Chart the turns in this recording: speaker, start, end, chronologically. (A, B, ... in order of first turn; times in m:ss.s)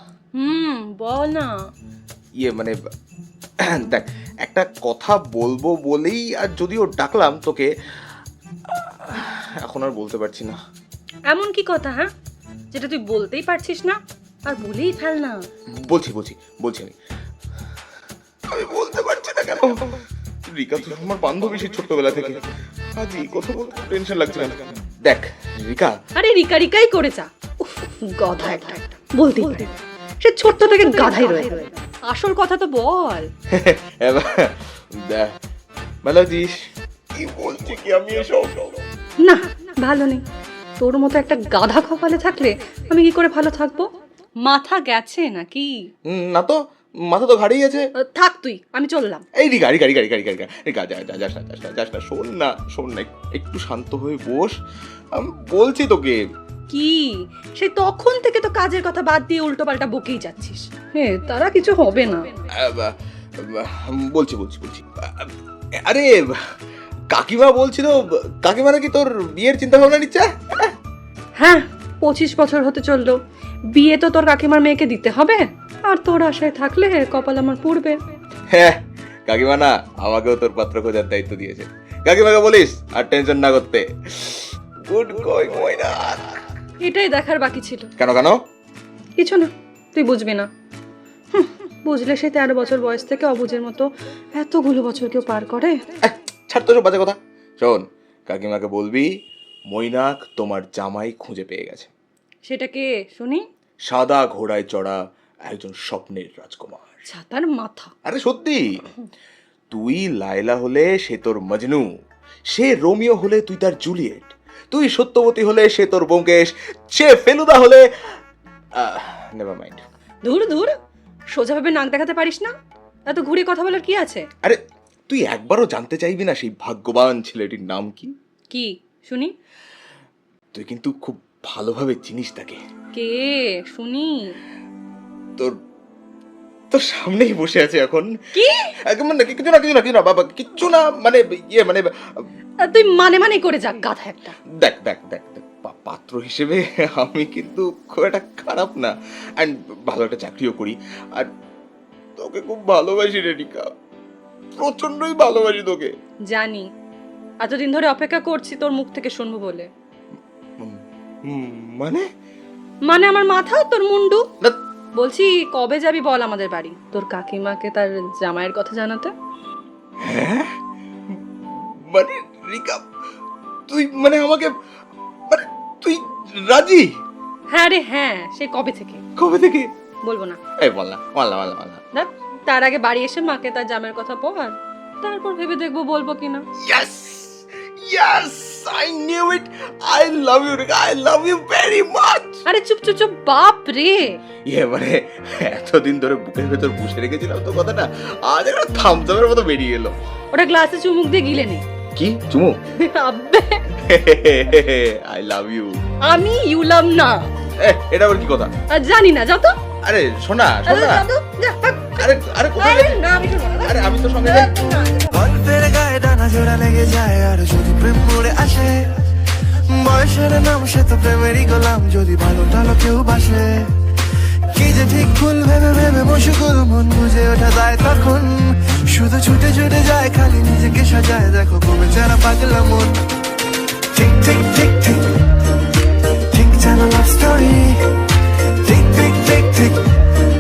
0:00.4-0:01.6 A
0:02.4-0:02.8 B
0:03.7-0:07.7 B
0:08.7-0:10.6 B
0:11.3-0:12.1 A
0:12.7-0:15.4 A
0:15.7-0:17.0 B
0:18.5-0:19.9 B
0:20.5-0:26.0 B
0:26.2-0:33.3 A
0:33.5-0:35.3 B
0:36.0-0:36.5 B
0:37.2-0:38.8 B
0:39.2-0:40.2 A
0:40.8-0:43.9 A
0:44.4-0:45.8 A
0:46.1-0:47.9 B
0:48.0-0:49.2 A
0:49.4-0:54.6 B
0:55.1-0:56.2 B
0:56.7-1:02.4 A
1:02.5-1:05.3 B
1:05.8-1:06.4 B
1:07.1-1:10.7 B
1:11.4-1:13.2 A
1:13.7-1:18.0 A
1:18.5-1:26.4 B
1:26.8-1:27.9 A
1:28.0-1:28.4 B
1:29.2-1:30.5 A
1:31.3-1:35.8 A
1:36.0-1:39.1 B
1:39.7-1:41.9 B
1:42.4-1:43.4 A
1:43.9-1:47.0 B
1:47.1-1:47.9 A
1:48.1-1:48.8 B
1:49.7-1:51.9 B
1:52.5-1:58.2 B
1:58.8-1:59.8 B
2:00.2-2:00.7 A
2:01.3-2:02.5 A
2:03.1-2:04.3 A
2:04.4-2:08.1 B
2:08.5-2:09.3 A
2:10.5-2:12.6 B
2:12.9-2:14.3 A
2:16.7-2:18.1 B
2:18.3-2:18.7 A
2:18.9-2:21.9 B
2:22.6-2:24.3 A
2:24.6-2:31.3 B
2:32.2-2:33.7 B
2:34.6-2:35.9 B
2:36.3-2:36.7 A
2:37.4-2:39.7 A
2:40.6-2:42.1 B
2:42.8-2:44.2 A
2:45.0-2:49.1 A
2:50.0-2:50.6 B
2:51.1-2:52.8 B
2:53.7-2:54.5 B
2:55.3-2:56.9 B
2:57.5-2:59.0 A
2:59.2-2:59.7 B
3:00.0-3:00.4 A
3:00.6-3:01.8 B
3:01.9-3:06.4 A
3:06.6-3:12.4 B
3:12.5-3:14.2 A
3:14.4-3:20.0 B
3:20.3-3:21.6 A
3:22.0-3:22.6 B
3:22.8-3:23.6 A
3:23.8-3:25.8 B
3:26.0-3:27.3 A
3:27.6-3:28.5 B
3:28.7-3:29.6 A
3:29.8-3:31.1 B
3:30.7-3:35.3 A
3:32.0-3:33.0 B
3:33.6-3:34.5 B
3:35.1-3:38.8 C
3:39.8-3:43.5 C
3:44.5-3:53.0 C
3:53.9-3:55.1 C
3:56.3-3:57.7 C
3:58.6-4:00.1 C